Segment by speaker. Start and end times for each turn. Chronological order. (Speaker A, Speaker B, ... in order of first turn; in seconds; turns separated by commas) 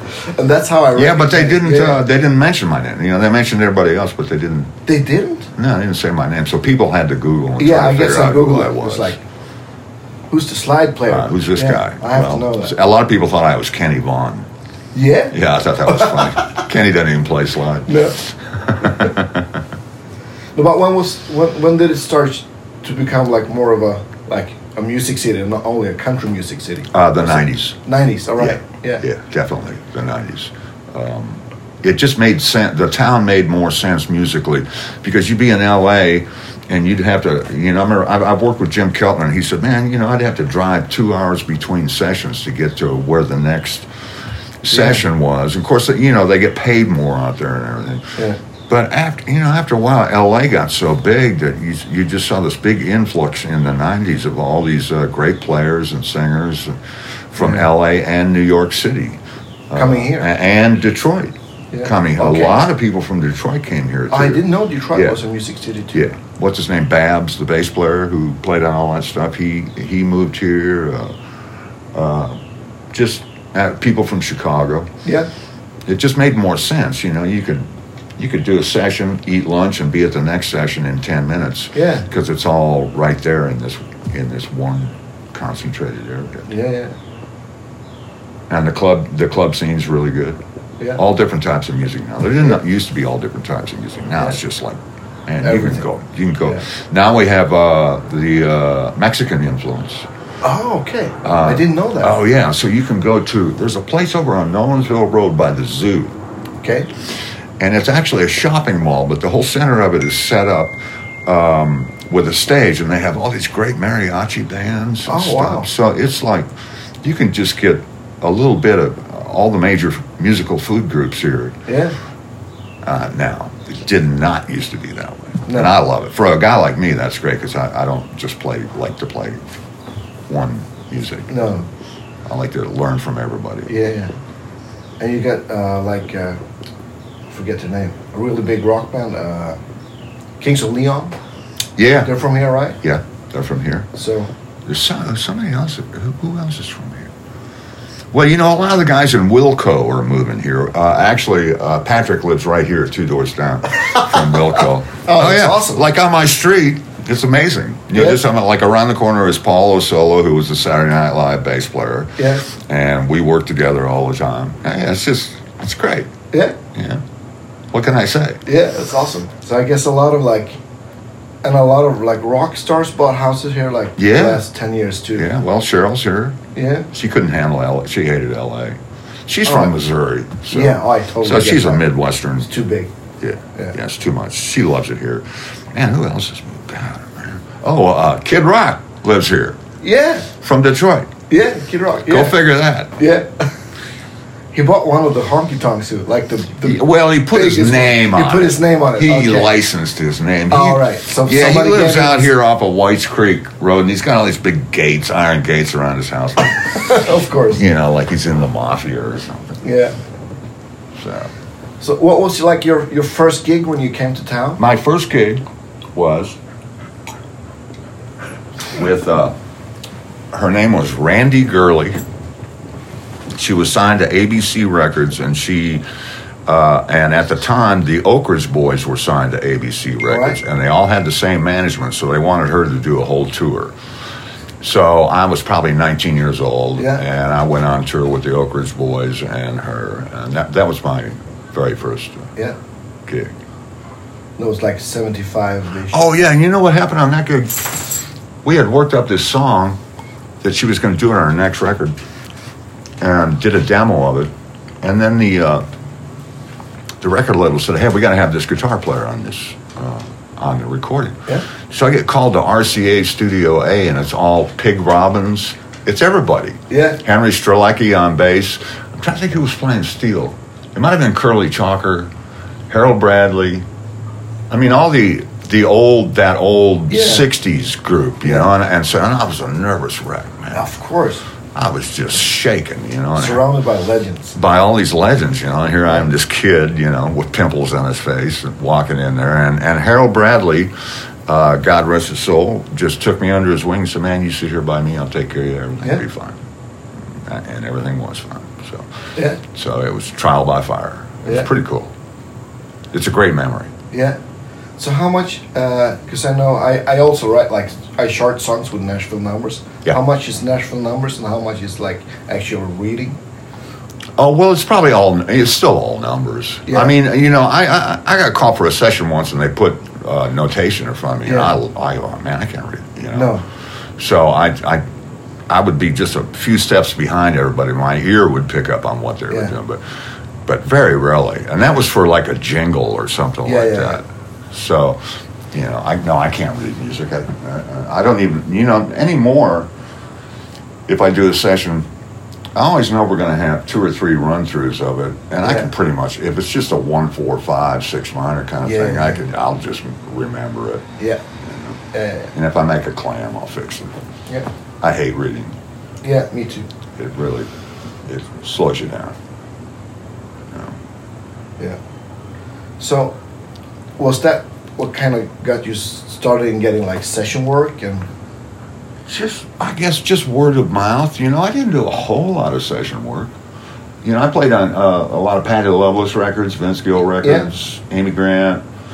Speaker A: 0.2-2.0, Speaker B: 0.9-4.7, Speaker A: 4.9-5.5, Speaker B: 5.6-9.2, Speaker A: 7.6-9.2, Speaker A: 10.3-12.8, Speaker B: 11.1-14.5, Speaker A: 14.9-16.6, Speaker B: 15.3-19.6, Speaker A: 17.9-18.2, Speaker A: 20.6-29.1, Speaker B: 26.9-27.8, Speaker B: 28.4-43.9, Speaker B: 44.6-48.1, Speaker A: 44.7-45.0, Speaker B: 48.7-56.8, Speaker B: 57.3-65.2, Speaker A: 57.4-57.7, Speaker A: 59.7-60.3, Speaker A: 61.7-62.7, Speaker A: 64.1-66.1, Speaker B: 65.9-71.2, Speaker B: 71.9-72.4, Speaker B: 72.9-74.9, Speaker A: 75.0-75.3, Speaker B: 75.9-86.5, Speaker A: 81.7-82.1, Speaker A: 86.5-87.0, Speaker B: 88.5-90.4, Speaker B: 91.0-100.1, Speaker A: 95.4-95.8, Speaker A: 100.4-102.2, Speaker B: 101.2-106.2, Speaker A: 106.6-106.9, Speaker B: 107.6-116.5, Speaker A: 115.1-115.7, Speaker B: 117.0-121.6, Speaker A: 121.7-122.0, Speaker B: 122.8-129.5, Speaker A: 125.5-125.8, Speaker B: 130.3-131.4, Speaker A: 131.3-131.7, Speaker B: 132.3-133.7, Speaker A: 133.7-134.1, Speaker A: 135.0-136.4, Speaker A: 137.3-139.6, Speaker A: 140.4-141.2, Speaker B: 141.8-142.1, Speaker A: 142.0-142.8, Speaker B: 142.8-143.9, Speaker A: 143.9-144.3, Speaker B: 144.7-147.1, Speaker B: 148.1-166.1, Speaker A: 153.8-155.8, Speaker A: 157.9-158.2, Speaker A: 162.2-162.5, Speaker A: 166.3-166.6, Speaker B: 166.7-167.0, Speaker B: 167.7-168.4, Speaker A: 168.5-170.6, Speaker A: 171.4-175.3, Speaker B: 174.0-174.4, Speaker B: 175.2-176.4, Speaker A: 176.5-176.9, Speaker B: 176.9-182.5, Speaker A: 179.5-179.8, Speaker A: 180.5-181.9, Speaker A: 182.4-182.9, Speaker B: 183.2-189.6, Speaker A: 189.8-190.3, Speaker B: 190.4-191.1, Speaker A: 191.3-192.4, Speaker B: 192.1-192.9, Speaker A: 193.0-193.5, Speaker A: 194.5-199.5, Speaker B: 196.6-206.8, Speaker A: 200.5-202.3, Speaker A: 206.7-207.6, Speaker B: 207.5-209.6, Speaker A: 209.6-209.9, Speaker B: 210.9-211.3, Speaker A: 211.8-214.6, Speaker B: 214.6-215.4, Speaker B: 215.9-216.4, Speaker B: 218.7-219.4, Speaker B: 220.3-222.0, Speaker B: 223.3-225.8, Speaker B: 226.5-233.7, Speaker A: 230.1-230.4, Speaker B: 234.6-242.3, Speaker A: 236.8-237.0, Speaker B: 243.1-243.3, Speaker A: 244.4-246.0, Speaker B: 245.9-249.8, Speaker B: 250.4-252.0, Speaker B: 253.0-254.3, Speaker B: 254.8-255.6, Speaker B: 257.0-272.1, Speaker A: 266.7-267.0, Speaker B: 272.7-273.6, Speaker B: 274.5-280.7, Speaker A: 276.9-277.2, Speaker A: 278.2-278.5, Speaker A: 280.5-281.2, Speaker B: 281.5-283.4, Speaker A: 283.2-284.4, Speaker B: 284.4-290.7, Speaker B: 291.3-296.4, Speaker B: 297.1-298.9, Speaker A: 299.1-299.4, Speaker B: 299.4-301.9, Speaker B: 302.9-303.7, Speaker A: 303.9-304.2, Speaker A: 304.8-313.2, Speaker B: 314.2-323.4, Speaker A: 316.7-316.9, Speaker A: 321.3-321.6, Speaker A: 323.1-323.4, Speaker B: 324.0-324.8, Speaker B: 325.5-329.8, Speaker B: 330.4-339.7, Speaker A: 333.4-334.0, Speaker B: 340.9-341.9, Speaker B: 342.6-350.9, Speaker A: 345.4-345.7, Speaker A: 348.6-349.2, Speaker A: 351.0-351.2, Speaker B: 351.4-351.8, Speaker A: 351.9-352.3, Speaker B: 352.3-353.9, Speaker B: 354.8-355.6, Speaker A: 356.0-356.7, Speaker B: 357.0-357.5, Speaker B: 358.1-359.2, Speaker B: 360.5-360.8, Speaker A: 362.8-363.2, Speaker A: 364.0-368.1, Speaker B: 369.1-373.3, Speaker B: 374.0-378.6, Speaker A: 377.2-377.5